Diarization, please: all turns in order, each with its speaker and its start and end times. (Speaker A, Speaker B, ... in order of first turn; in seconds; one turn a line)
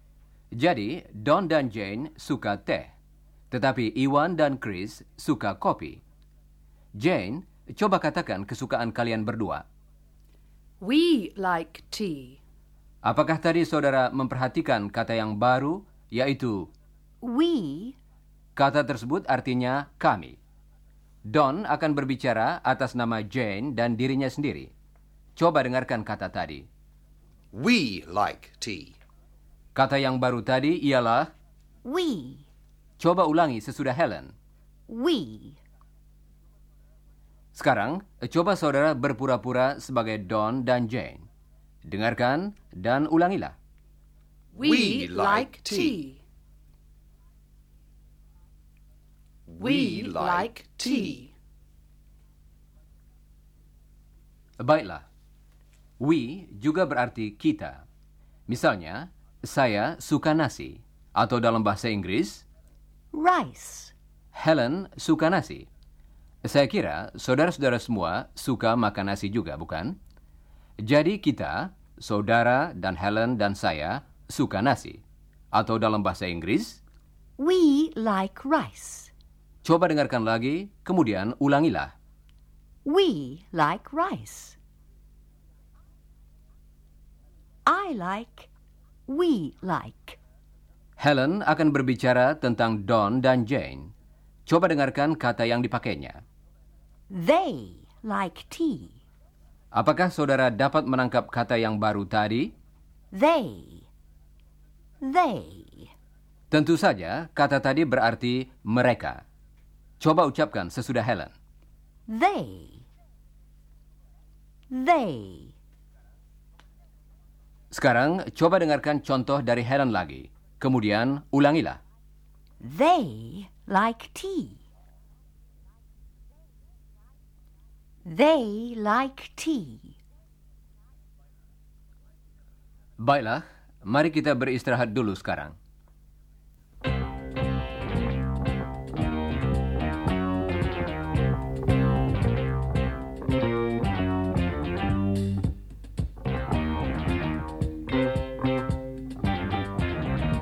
Speaker A: 0.6-2.9
Speaker A: 3.5-6.0
Speaker A: 7.0-9.7
Speaker B: 10.8-12.4
Speaker A: 13.1-16.7
Speaker C: 17.2-18.0
Speaker A: 18.6-20.4
Speaker A: 21.3-24.7
Speaker A: 25.4-26.7
Speaker D: 27.5-29.0
Speaker A: 29.8-31.3
Speaker C: 31.8-32.5
Speaker A: 33.0-34.3
Speaker C: 34.9-35.6
Speaker A: 37.5-41.3
Speaker A: 41.9-43.5
Speaker B: 44.5-46.2
Speaker D: 44.6-46.0
Speaker D: 49.5-51.2
Speaker B: 49.6-51.3
Speaker A: 54.6-55.1
Speaker A: 56.0-57.8
Speaker A: 58.5-62.5
Speaker C: 63.1-63.9
Speaker A: 64.3-65.7
Speaker A: 66.5-70.0
Speaker A: 70.8-75.0
Speaker A: 75.5-76.8
Speaker C: 77.4-79.1
Speaker A: 79.6-81.9
Speaker C: 82.8-84.6
Speaker C: 87.7-88.5
Speaker C: 89.1-90.2
Speaker A: 91.0-93.9
Speaker A: 94.5-96.2
Speaker C: 97.1-99.0
Speaker A: 99.7-102.5
Speaker C: 103.1-103.9
Speaker C: 105.0-105.9
Speaker A: 106.5-109.2
Speaker A: 110.0-111.3
Speaker C: 112.1-112.8
Speaker C: 114.7-115.5
Speaker A: 117.7-121.8
Speaker C: 122.6-124.6
Speaker C: 128.1-130.0
Speaker A: 133.0-135.6